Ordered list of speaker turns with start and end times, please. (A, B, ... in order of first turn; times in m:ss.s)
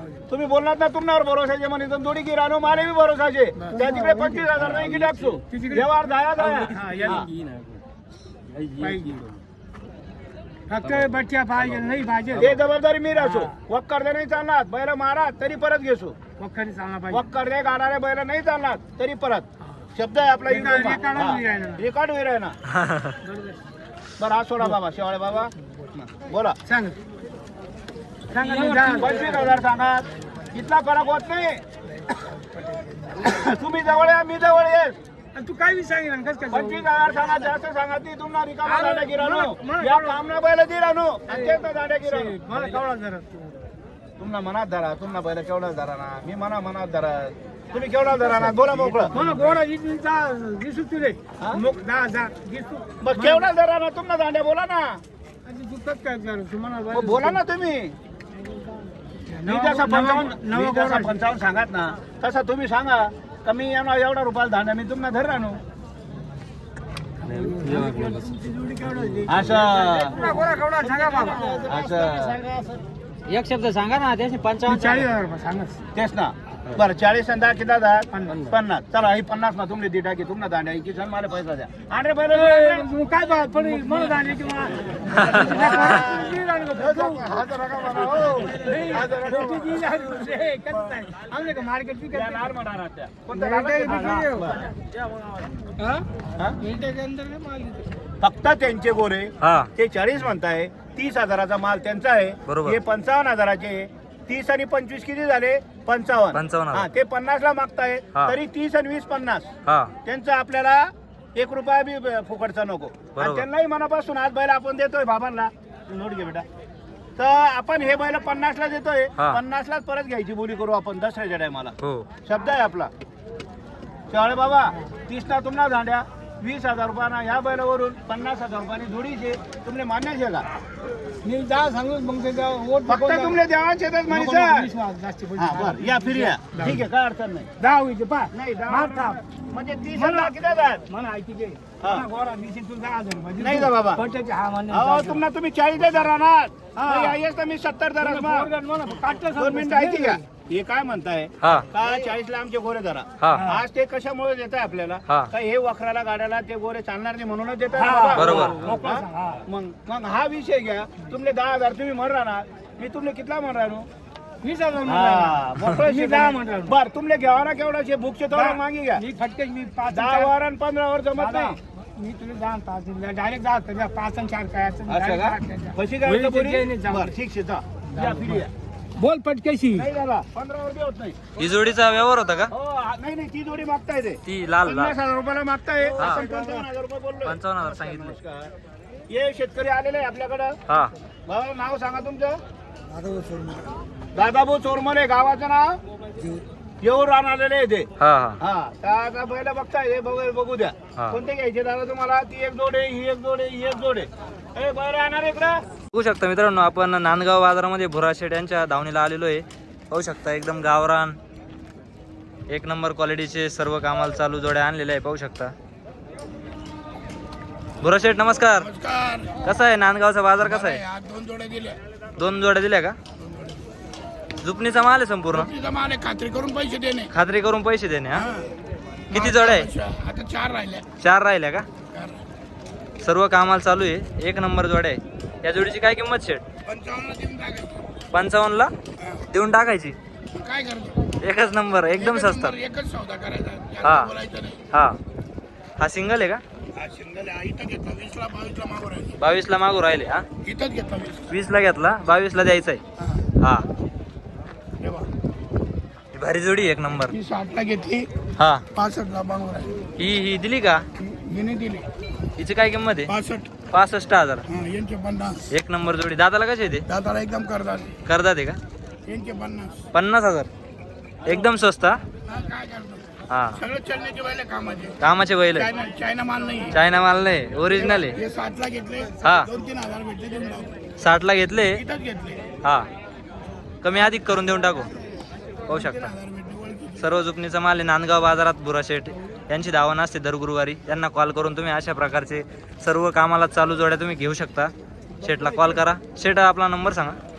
0:00.3-0:07.3 A
0:03.6-0:04.4 B
0:04.6-0:05.2 C
0:05.5-0:05.9 B
0:06.4-0:07.8 C
0:06.6-0:07.3 B
0:08.5-0:09.3 C
0:08.8-0:09.2 B
0:10.7-0:12.5 B
0:10.8-0:11.1 C
0:12.3-0:16.2 A
0:13.2-0:13.5 B
0:16.4-0:17.2 B
0:17.1-0:22.6 A
0:20.5-0:21.8 B
0:22.7-0:23.1 D
0:23.2-0:23.6 B
0:24.2-0:26.6 A
0:26.6-0:27.0 B
0:28.3-0:29.5 B
0:28.4-0:29.4 C
0:28.5-0:31.6 A
0:33.2-0:35.0 A
0:35.3-0:36.8 B
0:36.5-0:42.8 A
0:38.6-0:40.2 B
0:41.3-0:43.4 B
0:44.2-0:49.2 A
0:48.9-0:53.5 B
0:53.0-0:55.0 A
0:55.4-0:57.4 B
0:56.9-0:58.0 A
0:59.3-1:01.2 B
0:59.4-1:05.6 A
1:07.2-1:11.8 B
1:07.3-1:08.2 C
1:09.2-1:12.3 C
1:09.2-1:10.3 A
1:11.6-1:12.4 A
1:12.5-1:12.8 B
1:13.3-1:15.1 C
1:14.6-1:15.8 B
1:15.9-1:22.9 A
1:18.1-1:18.4 B
1:22.3-1:27.4 B
1:23.5-1:24.0 A
1:25.1-1:25.5 D
1:25.3-1:30.0 A
1:27.9-1:32.5 B
1:32.1-1:35.3 A
1:33.3-1:34.5 B
1:35.8-1:36.0 B
1:36.6-1:37.9 B
1:38.2-1:49.5 A
1:39.4-1:39.7 D
1:42.5-1:42.8 D
1:46.3-1:46.8 D
1:49.6-1:49.9 D
1:50.0-1:56.4 A
1:53.2-1:53.4 D
1:57.2-2:01.7 A
2:01.8-2:02.1 D
2:02.2-2:02.9 A
2:04.1-2:10.4 A
2:11.2-2:13.4 B
2:12.9-2:14.7 A
2:14.1-2:16.8 B
2:15.4-2:17.5 A
2:17.6-2:19.2 B
2:18.3-2:20.8 A
2:19.9-2:20.3 B
2:20.9-2:25.2 B
2:23.4-2:24.0 A
2:24.7-2:28.5 A
2:26.8-2:27.2 B
2:28.0-2:30.2 B
2:29.3-2:43.9 A
2:31.4-2:31.7 D
2:33.3-2:33.6 B
2:37.8-2:39.4 B
2:38.1-2:38.7 D
2:44.4-2:46.7 B
2:44.8-2:49.0 A
2:48.3-2:50.3 B
2:49.9-2:51.6 A
2:51.1-2:57.1 B
2:54.9-2:58.5 A
2:57.9-2:58.4 B
2:59.0-2:59.9 B
2:59.7-3:01.2 A
3:01.4-3:02.5 D
3:02.5-3:08.5 A
3:04.2-3:04.9 D
3:06.0-3:06.2 D
3:07.2-3:08.2 D
3:09.1-3:10.6 A
3:10.7-3:10.9 D
3:11.3-3:12.4 A
3:14.1-3:15.8 A
3:16.8-3:17.9 A
3:18.0-3:18.4 D
3:18.4-3:25.6 A
3:25.9-3:31.2 D
3:32.5-3:35.5 D
3:37.8-3:38.7 D
3:38.6-3:39.4 E
3:39.4-3:40.8 D
3:40.7-3:41.8 E
3:42.2-3:43.0 D
3:44.4-3:45.5 D
3:45.4-3:47.1 E
3:47.1-3:48.3 D
3:48.2-3:48.5 E
3:49.1-3:49.7 D
3:49.1-3:50.8 E
3:51.0-3:51.7 D
3:51.9-3:52.2 E
3:53.0-3:56.4 D
3:56.6-3:57.8 E
3:58.1-3:58.7 D
3:59.3-4:00.0 D
4:00.3-4:01.0 E
4:01.2-4:02.6 D
4:02.2-4:04.6 E
4:03.8-4:04.2 D
4:04.7-4:05.0 D
4:05.8-4:06.4 D
4:06.8-4:09.1 E
4:09.2-4:10.2 D
4:10.4-4:11.3 E
4:11.3-4:12.8 D
4:13.4-4:13.6 D
4:14.8-4:15.1 E
4:16.1-4:17.2 D
4:17.2-4:18.1 E
4:18.4-4:18.6 D
4:18.7-4:19.8 E
4:20.0-4:20.8 D
4:21.2-4:21.9 E
4:22.4-4:23.1 D
4:23.1-4:23.5 E
4:23.7-4:24.4 D
4:24.5-4:25.5 E
4:25.5-4:26.8 D
4:26.9-4:27.9 E
4:28.0-4:28.6 D
4:29.1-4:29.8 E
4:29.9-4:30.5 D
4:31.2-4:32.0 D
4:32.3-4:33.1 E
4:33.3-4:33.6 D
4:33.6-4:35.0 E
4:35.0-4:35.7 D
4:35.6-4:36.7 E
4:36.7-4:38.2 D
4:38.2-4:40.8 E
4:39.2-4:39.5 D
4:41.0-4:41.8 D
4:41.8-4:42.5 E
4:42.6-4:42.9 D
4:43.8-4:44.9 D
4:45.6-4:46.1 D
4:46.1-4:47.0 E
4:47.0-4:57.2 D